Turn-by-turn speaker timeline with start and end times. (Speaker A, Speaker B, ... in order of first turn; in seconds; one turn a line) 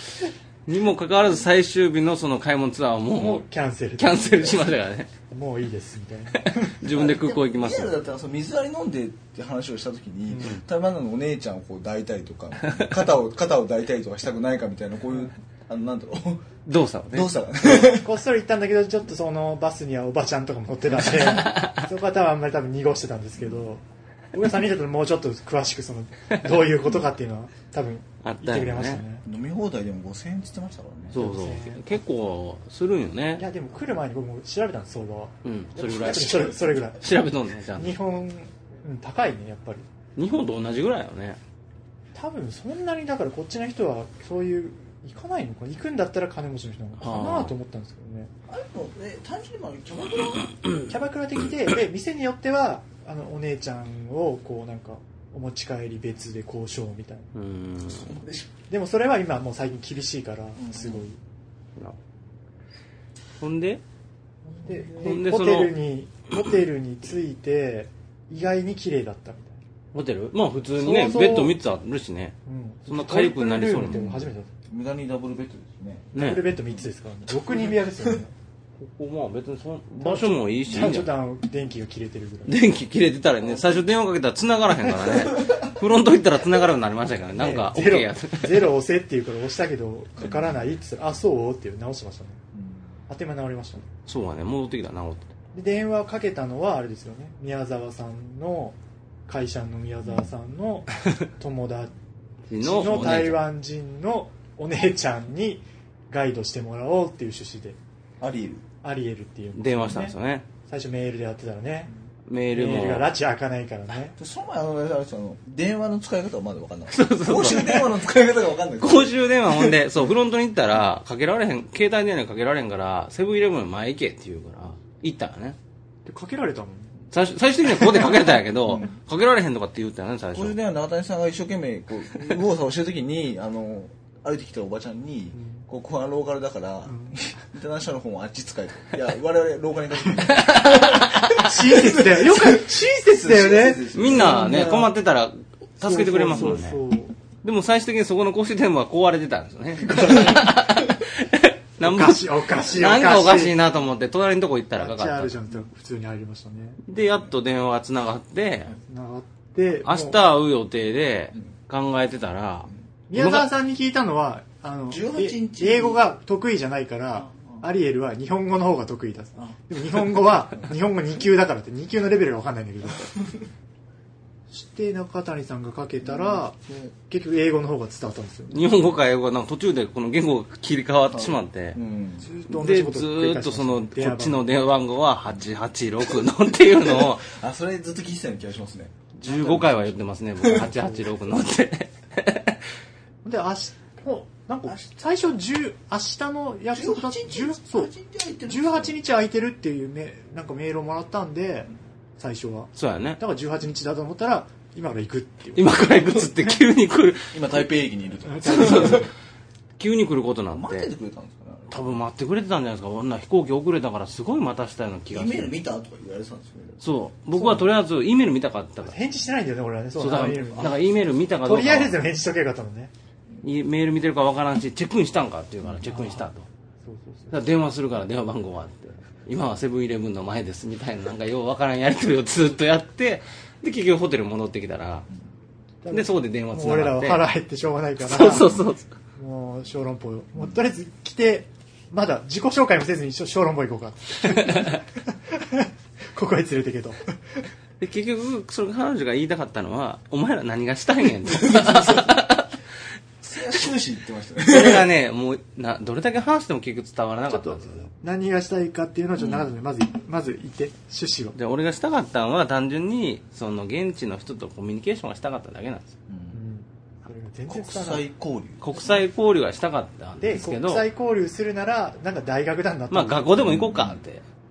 Speaker A: 0.7-3.5
Speaker B: 3.1-4.8
Speaker A: 4.0-5.1
Speaker B: 5.3-7.0
Speaker A: 6.7-7.9
Speaker C: 6.9-16.4
Speaker B: 10.3-10.6
Speaker A: 16.6-17.9
Speaker C: 17.1-18.1
Speaker B: 17.8-29.2
Speaker A: 28.2-29.0
Speaker C: 29.2-31.2
Speaker B: 31.1-32.0
Speaker A: 31.1-33.4
Speaker B: 33.4-37.1
Speaker A: 35.4-37.9
Speaker C: 35.9-36.6
Speaker B: 37.8-39.9
Speaker A: 40.1-41.4
Speaker B: 42.1-48.3
Speaker A: 47.0-47.5
Speaker C: 48.5-50.5
Speaker B: 50.9-57.3
Speaker A: 57.3-58.1
Speaker C: 57.9-58.5
Speaker B: 58.7-61.2
Speaker C: 60.6-61.0
Speaker A: 63.4-63.8
Speaker C: 64.5-65.2
Speaker B: 64.6-69.6
Speaker A: 65.0-65.8
Speaker A: 69.9-72.3
Speaker B: 70.7-71.6
Speaker B: 72.4-74.5
Speaker A: 72.9-74.3
Speaker C: 74.7-76.1
Speaker A: 76.1-76.4
Speaker B: 76.1-78.3
Speaker C: 76.7-78.2
Speaker A: 78.8-81.1
Speaker B: 80.0-82.6
Speaker A: 82.5-88.7
Speaker C: 85.0-85.5
Speaker B: 87.3-92.4
Speaker C: 90.2-90.7
Speaker C: 92.5-92.9
Speaker B: 93.1-93.9
Speaker A: 94.0-95.3
Speaker B: 95.5-98.8
Speaker B: 99.3-101.9
Speaker A: 102.5-103.4
Speaker B: 102.6-107.8
Speaker C: 102.7-103.3
Speaker C: 108.2-108.6
Speaker B: 108.8-111.9
Speaker A: 109.5-110.5
Speaker A: 112.3-113.1
Speaker B: 112.5-114.1
Speaker C: 114.2-119.8
Speaker A: 116.9-117.9
Speaker A: 118.8-125.6
Speaker B: 126.0-127.0
Speaker A: 127.1-130.6
Speaker C: 127.9-128.9
Speaker C: 130.3-144.6
Speaker B: 135.3-135.7
Speaker B: 136.8-137.2
Speaker A: 140.3-141.5
Speaker B: 141.3-144.9
Speaker A: 143.9-146.8
Speaker B: 145.8-147.1
Speaker A: 147.4-155.3
Speaker C: 149.8-150.7
Speaker B: 151.8-153.6
Speaker B: 154.8-156.8
Speaker A: 156.8-158.7
Speaker B: 158.9-160.2
Speaker A: 159.8-163.5
Speaker B: 163.1-173.2
Speaker C: 164.9-166.0
Speaker C: 167.2-167.7
Speaker C: 169.3-169.7
Speaker C: 170.4-170.8
Speaker B: 174.5-178.7
Speaker C: 176.0-176.9
Speaker A: 178.5-181.8
Speaker C: 181.1-182.3
Speaker B: 182.2-184.5
Speaker A: 182.5-187.2
Speaker C: 186.9-189.8
Speaker A: 189.2-192.6
Speaker B: 189.3-189.9
Speaker C: 190.4-190.7
Speaker B: 190.4-191.1
Speaker B: 193.2-197.9
Speaker C: 196.7-199.0
Speaker B: 198.4-206.6
Speaker A: 202.8-203.2
Speaker A: 205.5-207.4
Speaker C: 207.3-209.1
Speaker B: 208.3-209.1
Speaker A: 208.4-209.1
Speaker A: 209.8-210.9
Speaker C: 210.5-212.0
Speaker A: 211.7-215.5
Speaker C: 215.1-217.0
Speaker A: 216.8-219.0
Speaker B: 217.3-217.7
Speaker B: 218.8-220.8
Speaker A: 220.0-222.0
Speaker B: 221.4-222.9
Speaker A: 223.4-226.4
Speaker B: 225.8-226.3
Speaker B: 226.8-227.4
Speaker A: 227.3-235.1
Speaker B: 235.8-238.5
Speaker A: 235.9-237.2
Speaker A: 238.0-238.9
Speaker B: 239.2-247.1
Speaker A: 247.8-252.5
Speaker C: 251.2-252.2
Speaker C: 253.2-254.9
Speaker A: 254.4-257.9
Speaker B: 257.3-261.4
Speaker C: 259.2-259.5
Speaker A: 261.3-265.9
Speaker C: 266.1-266.4
Speaker B: 266.3-268.0
Speaker C: 267.5-268.7
Speaker A: 268.6-270.9
Speaker B: 268.7-269.0
Speaker B: 270.2-273.5
Speaker A: 272.9-274.2
Speaker C: 273.4-274.0